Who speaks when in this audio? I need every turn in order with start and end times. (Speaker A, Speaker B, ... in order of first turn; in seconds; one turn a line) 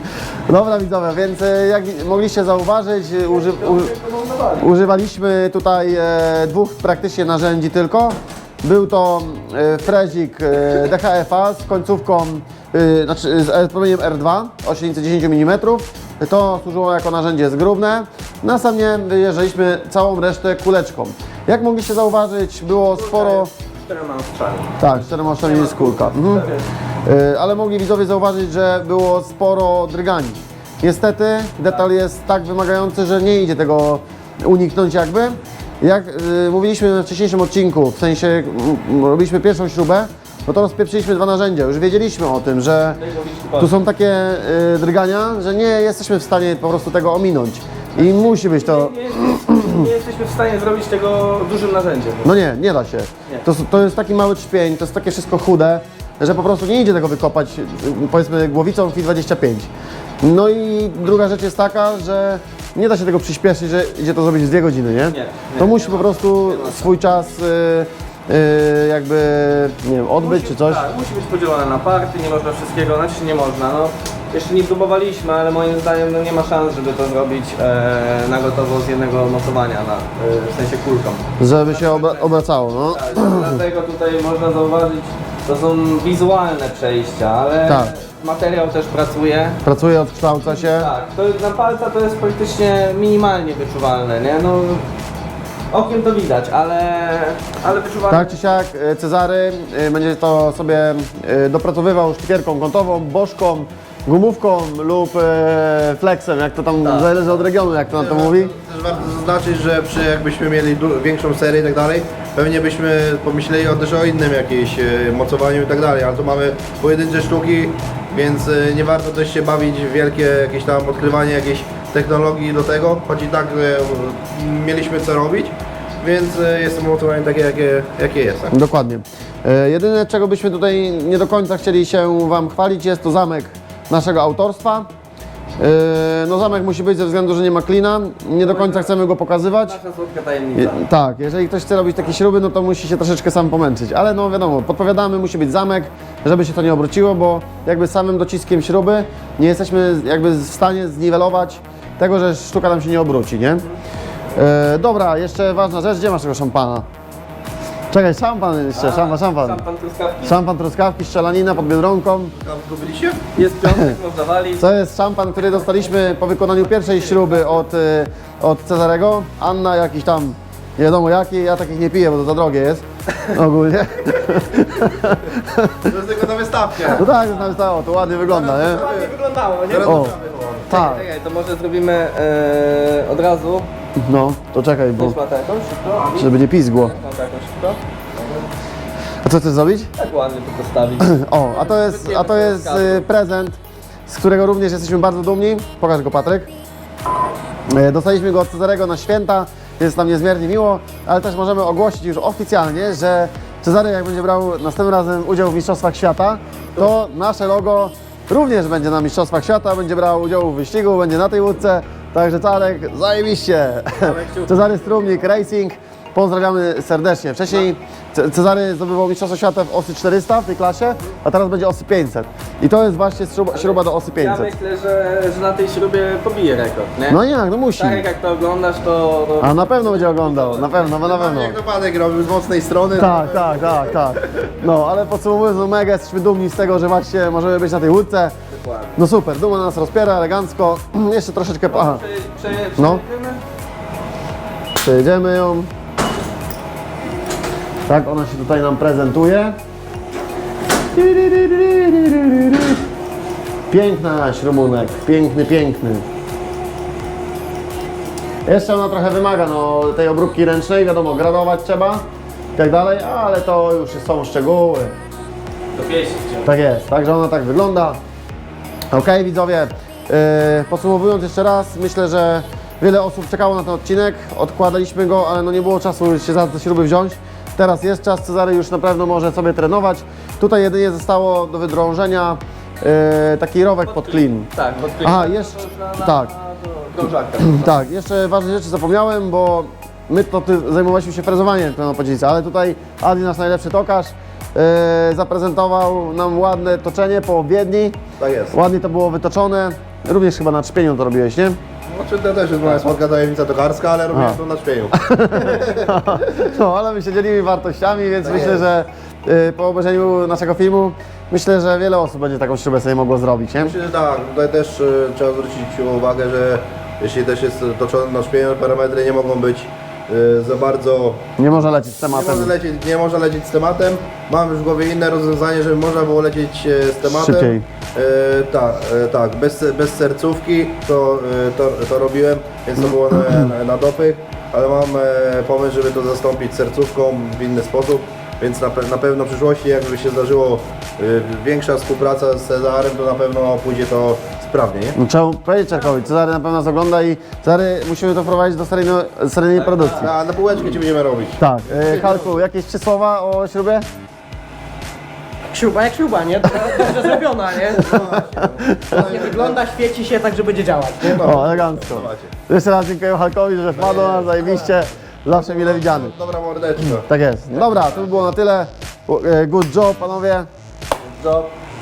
Speaker A: 0.5-3.9
Speaker B: 3.3-4.7
Speaker A: 4.6-23.5
Speaker B: 22.9-26.7
Speaker A: 24.8-26.5
Speaker A: 27.0-43.0
Speaker B: 42.9-43.7
Speaker A: 43.6-49.9
Speaker B: 48.0-52.3
Speaker A: 52.2-59.7
Speaker A: 60.2-70.8
Speaker B: 65.1-66.9
Speaker B: 70.2-89.6
Speaker A: 81.4-83.6
Speaker A: 87.7-87.9
Speaker A: 89.7-90.9
Speaker B: 90.4-94.9
Speaker B: 95.7-98.6
Speaker A: 98.1-108.5
Speaker B: 106.8-107.4
Speaker C: 107.9-128.6
Speaker A: 128.5-134.9
Speaker A: 135.6-139.8
Speaker B: 138.4-138.9
Speaker B: 139.6-140.8
Speaker A: 140.5-153.7
Speaker A: 154.3-156.8
Speaker A: 157.9-159.6
Speaker B: 158.8-160.4
Speaker A: 160.2-162.3
Speaker C: 162.4-163.2
Speaker B: 163.3-164.7
Speaker A: 163.6-164.0
Speaker A: 164.6-175.9
Speaker B: 166.8-167.6
Speaker C: 175.8-177.1
Speaker B: 176.8-177.5
Speaker A: 176.9-178.8
Speaker C: 178.2-180.7
Speaker D: 178.3-180.0
Speaker A: 179.8-180.2
Speaker A: 180.7-181.1
Speaker B: 180.7-183.7
Speaker A: 184.0-185.2
Speaker B: 185.0-187.8
Speaker A: 186.2-187.0
Speaker A: 189.2-189.9
Speaker B: 190.0-193.0
Speaker A: 191.0-196.5
Speaker A: 197.7-224.5
Speaker B: 213.9-215.4
Speaker B: 223.5-227.2
Speaker A: 227.1-228.1
Speaker B: 227.8-230.9
Speaker A: 229.4-231.6
Speaker C: 230.8-234.2
Speaker A: 232.9-238.3
Speaker B: 238.5-239.0
Speaker A: 239.0-242.0
Speaker B: 241.7-243.4
Speaker A: 242.8-243.0
Speaker A: 244.8-245.7
Speaker A: 247.9-249.6
Speaker A: 250.9-252.8
Speaker A: 253.7-256.0
Speaker A: 258.5-264.9
Speaker B: 265.7-266.5
Speaker A: 266.4-268.0
Speaker A: 268.9-284.5
Speaker B: 283.9-287.8
Speaker A: 285.0-286.3
Speaker A: 287.4-298.0
Speaker C: 298.2-298.5
Speaker A: 298.5-301.6
Speaker C: 301.9-306.0
Speaker A: 304.1-304.4
Speaker A: 304.9-313.8
Speaker C: 308.2-308.6
Speaker C: 313.6-321.3
Speaker A: 321.4-322.5
Speaker C: 322.1-345.0
Speaker A: 327.0-327.6
Speaker A: 345.0-350.2
Speaker B: 349.6-350.1
Speaker C: 349.9-352.4
Speaker A: 351.4-353.8
Speaker D: 355.5-358.2
Speaker C: 357.7-359.6
Speaker A: 358.0-359.0
Speaker D: 358.9-361.4
Speaker C: 361.0-362.3
Speaker A: 361.2-366.1
Speaker C: 363.8-364.4
Speaker C: 365.3-367.1
Speaker A: 366.9-370.5
Speaker C: 371.0-371.5